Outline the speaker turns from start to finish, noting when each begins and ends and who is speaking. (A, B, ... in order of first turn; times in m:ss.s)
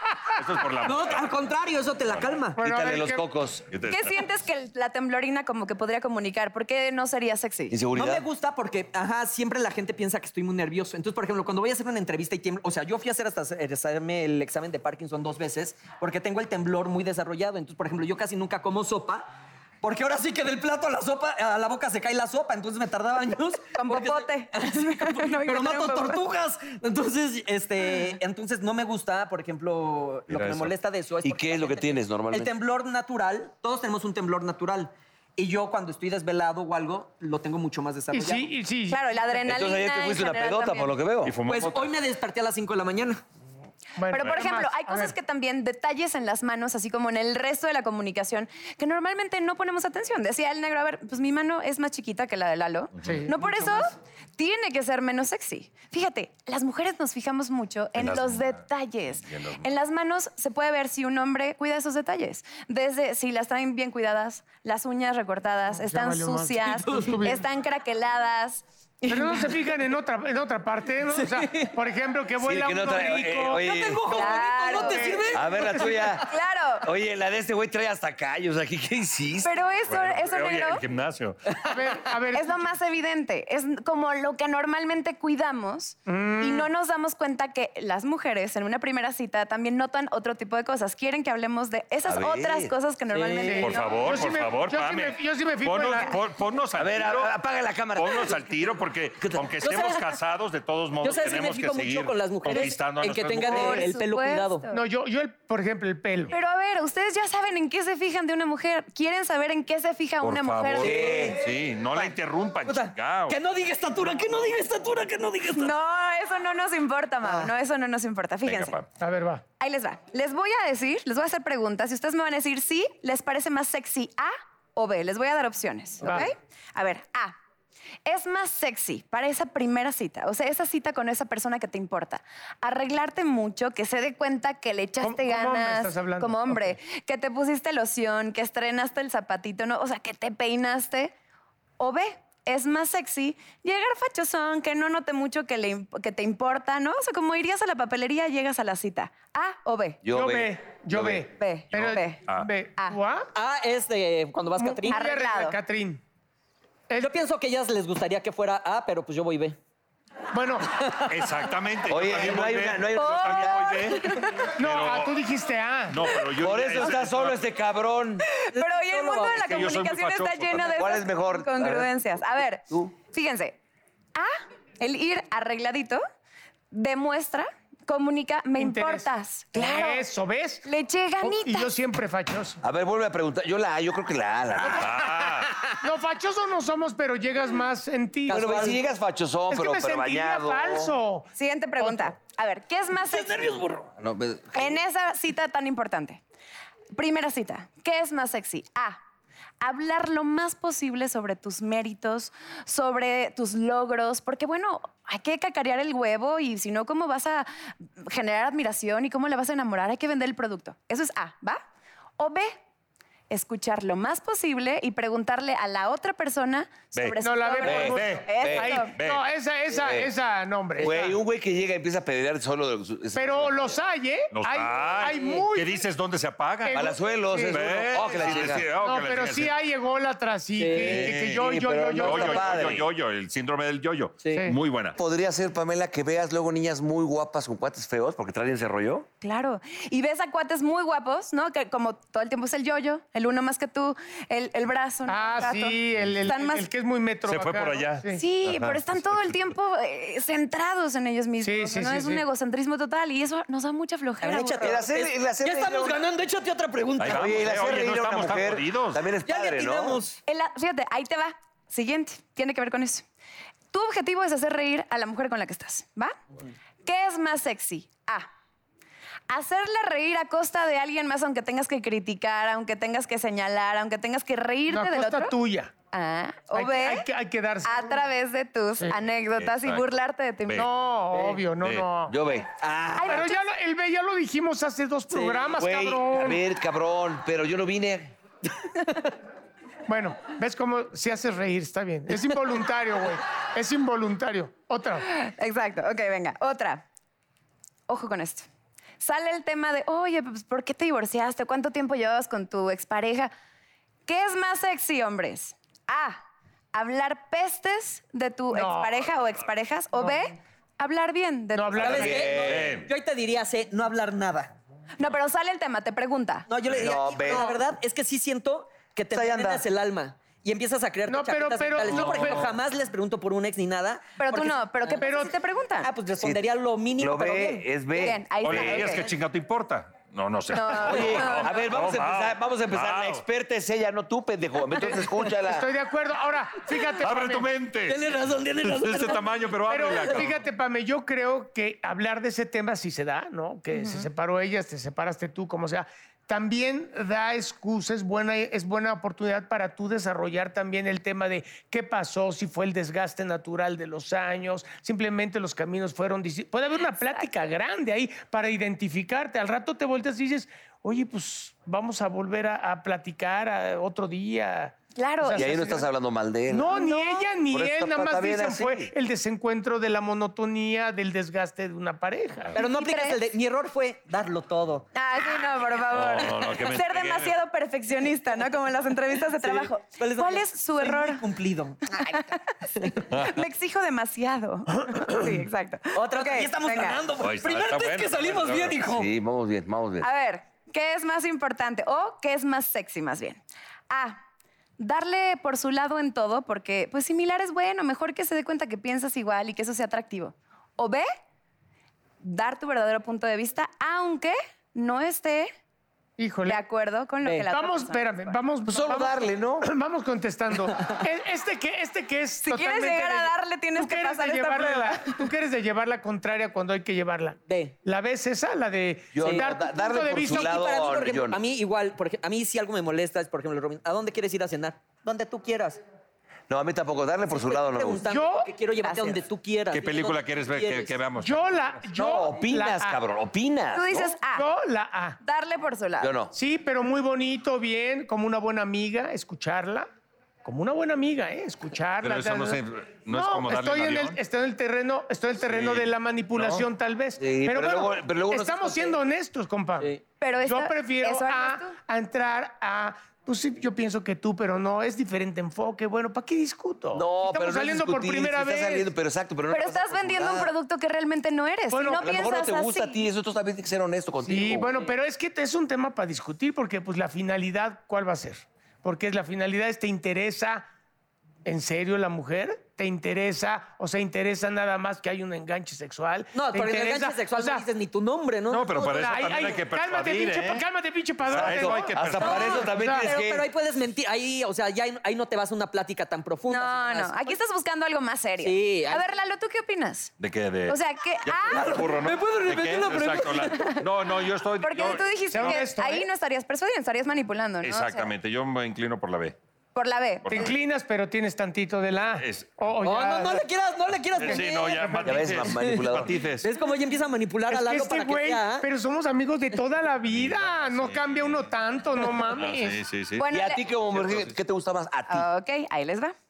0:00.3-0:01.4 A
0:00.8-0:02.6 B
0:02.1-0:02.4 A
0:02.6-0:03.3 C
0:02.6-0:03.7 D
0:03.7-0:04.2 A
0:03.9-0:07.7 E
0:07.7-0:08.2 D
0:07.9-0:19.3 B
0:19.8-0:38.5 B
0:23.7-0:26.2 E
0:30.3-0:30.7 A
0:31.2-0:32.5 D
0:38.1-0:39.0 C
0:38.9-0:40.9 E
0:39.4-0:41.4 D
0:41.2-0:41.9 A
0:41.4-0:43.2 B
0:44.0-0:45.1 C
0:44.1-1:08.6 E
0:44.2-0:44.4 A
0:53.0-0:53.8 C
0:58.0-0:58.6 A
0:59.3-0:59.6 A
1:05.8-1:07.4 C
1:06.9-1:07.1 B
1:09.0-1:09.5 B
1:09.1-1:13.7 C
1:11.1-1:11.7 B
1:12.4-1:14.3 D
1:13.6-1:16.2 B
1:14.1-1:15.2 E
1:14.7-1:15.8 C
1:15.3-1:16.3 D
1:16.2-1:16.9 E
1:16.8-1:19.5 D
1:19.4-1:20.8 E
1:19.9-1:21.5 A
1:21.6-1:22.7 C
1:22.3-1:34.0 E
1:26.1-1:26.7 C
1:32.0-1:32.7 D
1:33.1-1:33.6 B
1:33.4-1:36.2 C
1:33.6-1:37.3 A
1:36.8-1:38.4 D
1:38.0-1:43.9 A
1:39.2-1:39.5 D
1:39.6-1:40.0 B
1:41.0-1:44.6 B
1:43.4-1:44.8 E
1:44.7-1:46.3 C
1:46.3-1:51.1 E
1:50.2-1:53.4 A
1:50.8-1:51.4 D
1:50.9-1:51.3 B
1:52.6-1:55.7 B
1:55.6-1:58.8 E
1:58.4-1:58.9 A
1:59.0-1:59.4 C
1:59.6-2:07.4 E
2:06.0-2:06.3 C
2:08.0-2:21.1 E
2:15.0-2:16.7 C
2:21.8-2:30.0 E
2:30.0-2:31.3 D
2:30.1-2:33.3 C
2:31.4-2:32.2 E
2:31.7-2:32.5 A
2:33.3-2:35.0 B
2:34.6-2:36.0 C
2:34.9-2:35.6 E
2:37.0-2:39.6 B
2:40.3-2:40.8 C
2:41.0-2:44.0 A
2:41.9-2:43.8 D
2:43.0-2:44.5 E
2:44.6-2:46.0 C
2:44.6-2:45.2 A
2:45.9-2:47.4 A
2:46.4-2:48.3 D
2:48.4-2:53.6 E
2:48.5-2:49.6 B
2:49.4-2:50.8 A
2:50.7-2:51.9 D
2:52.7-2:53.0 D
2:54.1-2:56.0 E
2:56.7-3:00.0 E
2:58.6-3:00.6 C
3:00.6-3:01.7 E
3:01.2-3:02.6 C
3:02.6-3:05.1 D
3:04.7-3:05.5 A
3:05.8-3:08.8 C
3:08.3-3:10.9 D
3:08.3-3:08.8 B
3:09.5-3:12.1 C
3:11.4-3:13.5 E
3:13.1-3:13.9 B
3:13.9-3:14.7 D
3:14.5-3:16.2 E
3:16.9-3:19.0 E
3:19.6-3:31.6 E
3:32.2-3:32.6 E
3:33.3-3:39.0 E
3:36.9-3:37.2 A
3:37.2-3:41.2 C
3:37.6-3:38.8 D
3:37.9-3:38.3 A
3:39.0-3:39.2 A
3:39.7-3:40.1 D
3:40.8-3:43.8 D
3:40.8-3:41.0 B
3:43.1-3:45.8 C
3:44.3-3:46.8 A
3:45.1-3:45.4 B
3:46.6-3:48.1 C
3:46.7-3:48.7 D
3:47.5-3:49.6 A
3:48.6-3:52.8 C
3:50.6-3:51.1 B
3:50.7-3:55.0 A
3:51.0-3:52.9 D
3:54.2-3:54.5 B
3:54.3-3:54.6 C
3:55.0-3:59.1 D
3:59.2-4:06.7 E
4:05.1-4:08.2 C
4:07.3-4:09.3 A
4:08.1-4:14.7 E
4:11.4-4:12.2 C
4:14.2-4:17.4 B
4:14.6-4:16.0 D
4:17.0-4:19.0 A
4:17.1-4:20.0 D
4:19.3-4:20.2 B
4:20.2-4:23.0 E
4:23.7-4:26.1 E
4:26.8-4:28.3 E
4:29.3-4:35.3 E
4:34.7-4:35.7 C
4:35.9-4:37.0 E
4:36.5-4:38.0 C
4:37.6-4:40.6 E
4:39.4-4:39.9 A
4:40.6-4:42.2 C
4:41.6-4:41.9 A
4:42.1-4:43.2 D
4:43.0-4:43.4 E
4:43.0-4:46.4 C
4:45.5-4:48.1 D
4:49.9-4:55.0 C
4:55.1-4:56.8 E
4:57.9-4:58.5 E
4:59.0-5:03.3 E
5:04.1-5:06.2 E
5:06.7-5:11.9 E
5:08.5-5:09.0 C
5:09.9-5:10.2 C
5:11.5-5:12.3 C
5:11.8-5:14.5 B
5:11.8-5:12.8 D
5:12.4-5:12.9 A
5:15.0-5:16.5 E
5:16.5-5:25.0 B
5:16.7-5:17.6 D
5:19.1-5:19.6 D
5:21.1-5:22.5 C
5:21.9-5:22.4 A
5:24.2-5:25.9 E
5:25.0-5:25.3 C
5:25.8-5:27.7 B
5:27.0-5:28.9 D
5:28.0-5:29.1 E
5:28.4-5:33.2 A
5:30.5-5:31.5 E
5:30.8-5:35.7 D
5:35.4-5:37.5 C
5:37.0-5:40.4 A
5:37.9-5:39.2 B
5:39.7-6:05.9 C
5:43.7-5:44.0 E
6:04.9-6:05.4 E
6:05.3-6:06.8 D
6:06.5-6:12.6 C
6:06.7-6:07.3 E
6:07.5-6:08.9 D
6:12.6-6:14.9 B
6:12.6-6:13.2 E
6:15.0-6:21.2 E
6:15.9-6:17.3 A
6:19.4-6:22.1 B
6:22.0-6:22.4 E
6:23.1-6:23.4 A
6:23.1-6:27.0 E
6:25.9-6:29.1 B
6:27.2-6:28.8 A
6:28.9-6:30.1 D
6:30.0-6:34.2 E
6:34.8-6:41.1 E
6:42.2-6:45.5 E
6:46.2-6:46.6 C
6:46.5-6:48.4 E
6:47.5-7:00.6 C
6:48.7-6:49.7 D
6:52.4-6:55.2 E
6:57.5-6:57.7 B
6:59.1-7:01.4 D
7:00.2-7:05.8 B
7:06.5-7:08.1 D
7:07.4-7:11.0 B
7:08.0-7:08.5 C
7:08.8-7:09.2 E
7:09.7-7:11.8 A
7:11.2-7:13.0 C
7:11.9-7:14.2 D
7:13.7-7:14.5 E
7:14.3-7:15.2 C
7:15.2-7:16.2 E
7:16.0-7:16.3 D
7:16.3-7:19.9 C
7:20.4-7:38.9 C
7:22.0-7:24.2 A
7:25.5-7:26.6 A
7:27.2-7:29.0 D
7:30.2-7:31.8 E
7:36.9-7:40.5 D
7:39.5-7:43.0 E
7:41.7-7:42.2 C
7:42.0-7:44.8 D
7:44.2-7:50.6 C
7:51.4-7:57.6 C
7:56.3-7:58.6 B
7:58.5-8:00.6 A
7:58.7-8:02.0 C
8:01.3-8:02.6 A
8:01.3-8:03.5 D
8:02.2-8:07.4 B
8:02.7-8:03.1 C
8:06.5-8:10.1 E
8:08.4-8:09.0 B
8:10.2-8:15.6 A
8:10.7-8:11.7 E
8:11.5-8:13.7 B
8:14.6-8:18.1 E
8:15.3-8:16.1 C
8:17.6-8:19.4 A
8:19.7-8:20.5 E
8:20.2-8:20.5 A
8:20.3-8:23.4 C
8:22.2-8:22.6 A
8:22.8-8:25.9 B
8:24.2-8:26.4 A
8:24.8-8:25.2 C
8:25.0-8:26.3 D
8:26.4-8:28.7 B
8:27.5-8:32.8 C
8:30.0-8:33.2 A
8:33.2-8:33.6 E
8:33.3-8:35.3 D
8:34.0-8:34.3 A
8:35.1-8:36.1 E